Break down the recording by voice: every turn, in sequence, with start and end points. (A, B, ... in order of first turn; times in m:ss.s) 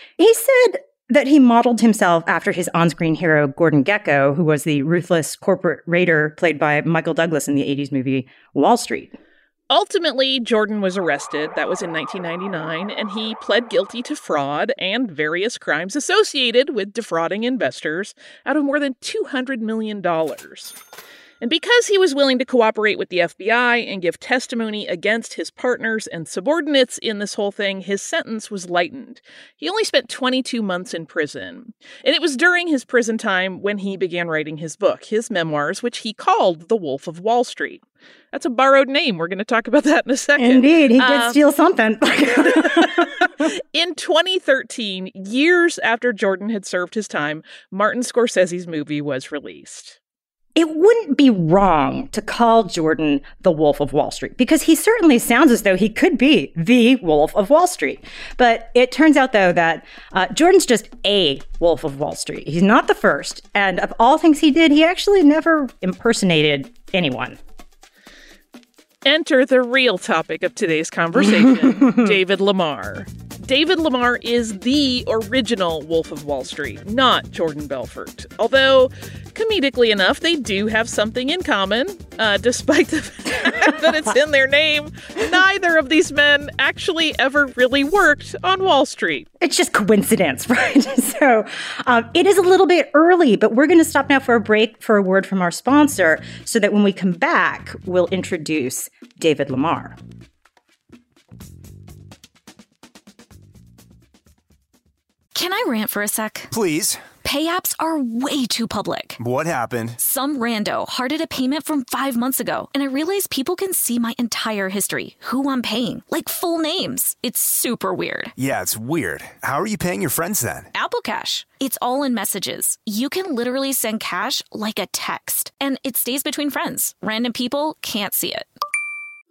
0:00.2-0:09.2 A
0:09.7-0:20.8 B
0:21.4-0:41.4 B
0:40.4-0:43.4 A
0:42.7-0:50.0 B
0:50.6-1:07.4 A
1:09.0-1:29.3 B
1:11.2-1:12.1 A
1:29.4-1:40.0 A
1:45.3-1:46.5 C
1:46.5-1:47.0 D
1:47.2-1:49.2 C
1:49.2-1:50.0 D
1:50.0-1:58.3 C
1:58.4-2:00.7 D
2:00.7-2:08.5 C